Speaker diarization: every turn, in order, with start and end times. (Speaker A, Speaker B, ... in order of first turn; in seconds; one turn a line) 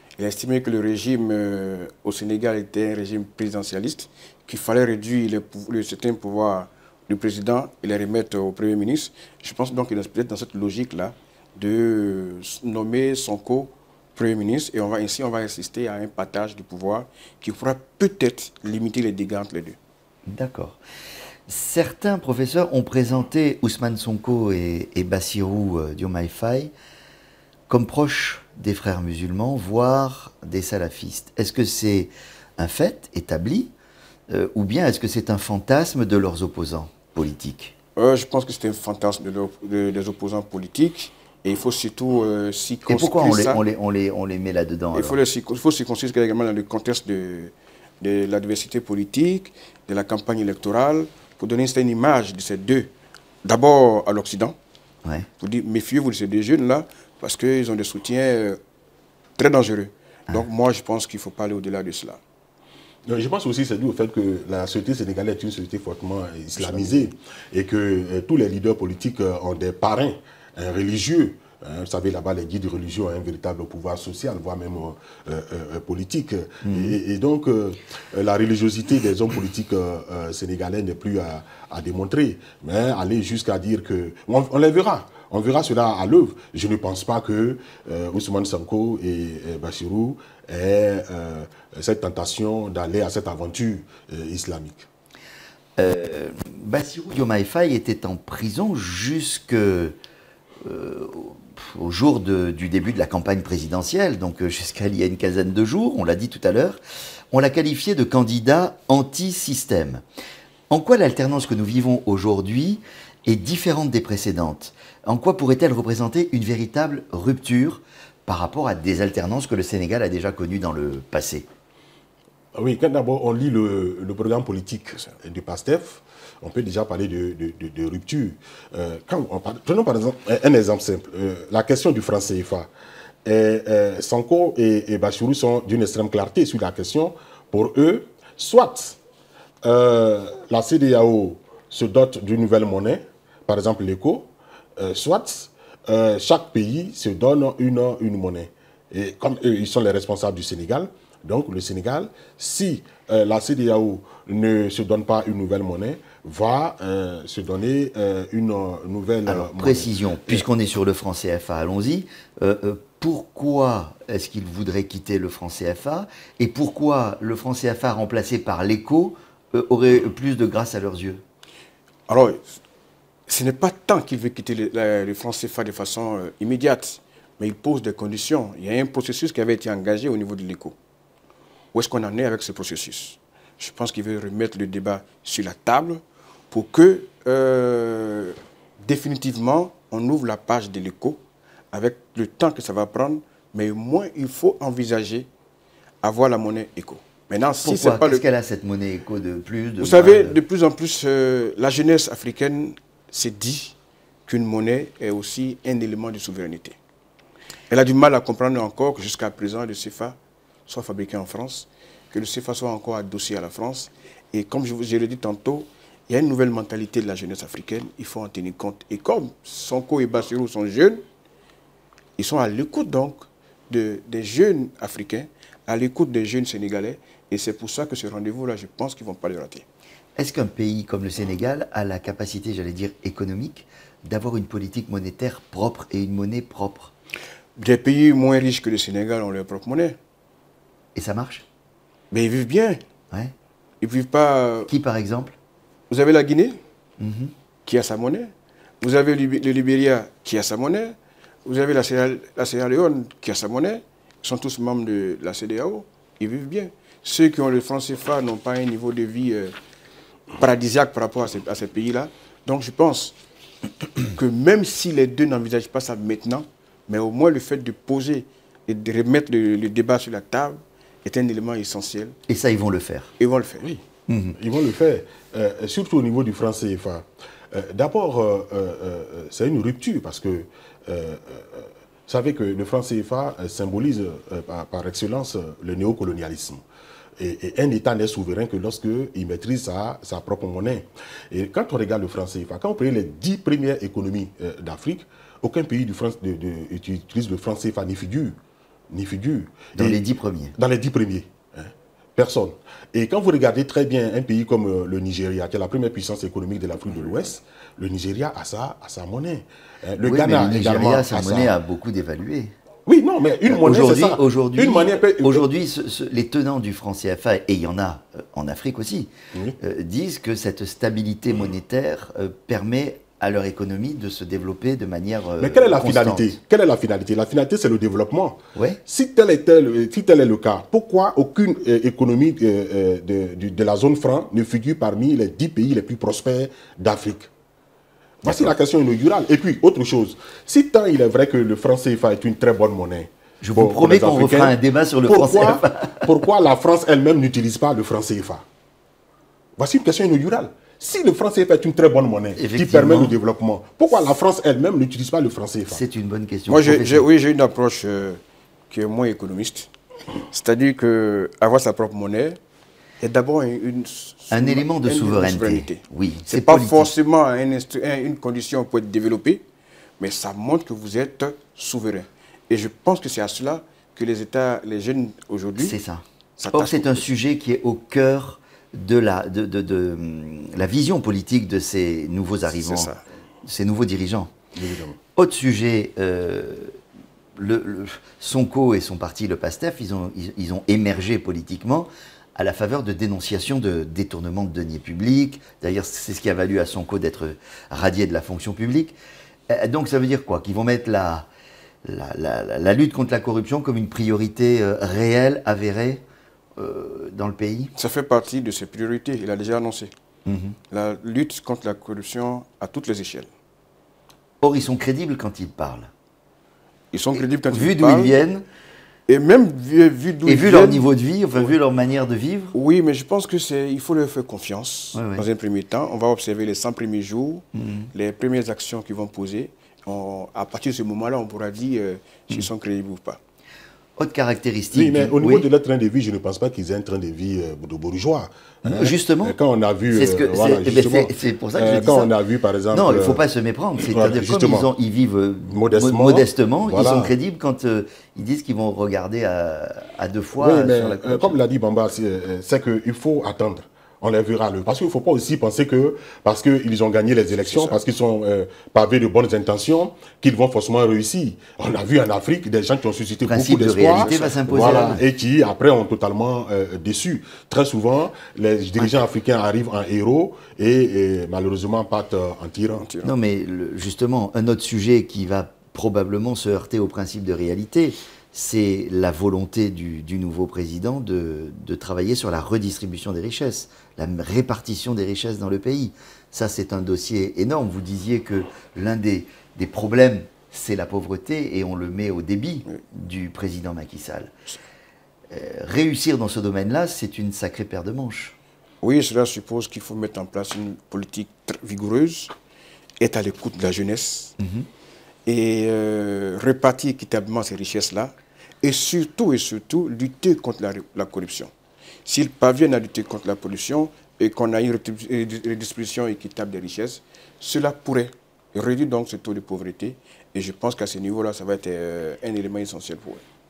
Speaker A: 0.2-19.8
Speaker B: 20.3-20.8
Speaker B: 21.5-26.7
Speaker B: 27.7-33.7
Speaker B: 34.3-37.7
Speaker A: 38.0-43.6
Speaker B: 42.9-45.2
Speaker A: 44.9-52.9
Speaker A: 53.4-54.5
Speaker A: 55.4-58.6
Speaker A: 59.4-62.2
Speaker C: 63.0-94.9
Speaker B: 76.6-77.0
Speaker B: 95.8-99.9
Speaker B: 100.6-106.8
Speaker B: 107.3-110.0
Speaker B: 110.7-121.5
Speaker C: 122.5-132.7
Speaker C: 133.2-139.0
Speaker C: 139.6-160.4
Speaker B: 159.2-171.2
Speaker A: 172.1-172.5
Speaker A: 173.3-180.8
Speaker A: 181.7-191.2
Speaker A: 191.7-195.3
Speaker A: 196.0-198.2
Speaker B: 197.6-200.4
Speaker A: 199.8-203.7
Speaker A: 204.2-206.8
Speaker A: 207.7-221.0
Speaker A: 222.2-229.6
Speaker B: 230.2-236.9
Speaker A: 237.6-240.0
Speaker B: 240.9-241.4
Speaker A: 242.1-242.8
Speaker A: 243.8-244.7
Speaker B: 244.7-245.3
Speaker A: 245.9-246.6
Speaker B: 247.0-247.3
Speaker A: 247.7-259.5
Speaker A: 260.4-263.2
Speaker A: 264.1-272.1
Speaker B: 272.3-273.1
Speaker A: 273.2-273.7
Speaker B: 274.1-274.4
Speaker C: 274.4-286.6
Speaker C: 287.2-298.4
Speaker C: 298.9-300.0
Speaker B: 299.8-300.5
Speaker C: 300.6-311.6
Speaker B: 310.0-312.5
Speaker C: 312.9-315.5
Speaker B: 313.4-326.3
Speaker C: 325.4-337.3
Speaker C: 338.2-348.4
Speaker B: 338.2-338.5
Speaker B: 343.4-346.1
Speaker C: 349.6-355.8
Speaker B: 352.4-353.1
Speaker B: 355.7-357.1
Speaker A: 356.5-359.7
Speaker A: 360.3-362.4
Speaker A: 363.0-369.4
Speaker B: 364.3-366.9
Speaker A: 370.0-375.8
Speaker B: 375.6-382.9
Speaker A: 376.4-377.1
Speaker A: 382.5-383.0
Speaker B: 383.4-384.3
Speaker C: 384.5-385.0
Speaker B: 385.1-386.8
Speaker B: 387.4-398.9
Speaker B: 399.5-401.3
Speaker B: 401.8-406.0
Speaker B: 406.6-407.7
Speaker A: 407.8-409.9
Speaker B: 410.2-410.6
Speaker A: 410.7-413.3
Speaker B: 414.4-415.9
Speaker A: 416.9-418.2
Speaker B: 417.5-418.4
Speaker A: 419.1-421.5
Speaker B: 420.2-422.5
Speaker A: 422.5-433.2
Speaker B: 424.9-425.2
Speaker B: 427.5-427.9
Speaker B: 434.0-435.5
Speaker C: 434.7-443.2
Speaker B: 438.6-439.4
Speaker B: 439.9-442.1
Speaker B: 442.7-451.4
Speaker C: 443.8-444.7
Speaker C: 445.5-447.1
Speaker C: 450.4-472.9
Speaker B: 463.3-465.0
Speaker A: 463.9-464.9
Speaker A: 472.8-473.1
Speaker B: 473.0-494.3
Speaker B: 495.3-498.3
Speaker A: 498.8-502.3
Speaker A: 503.0-504.4
Speaker B: 504.4-504.7
Speaker A: 505.2-511.5
Speaker A: 512.0-523.2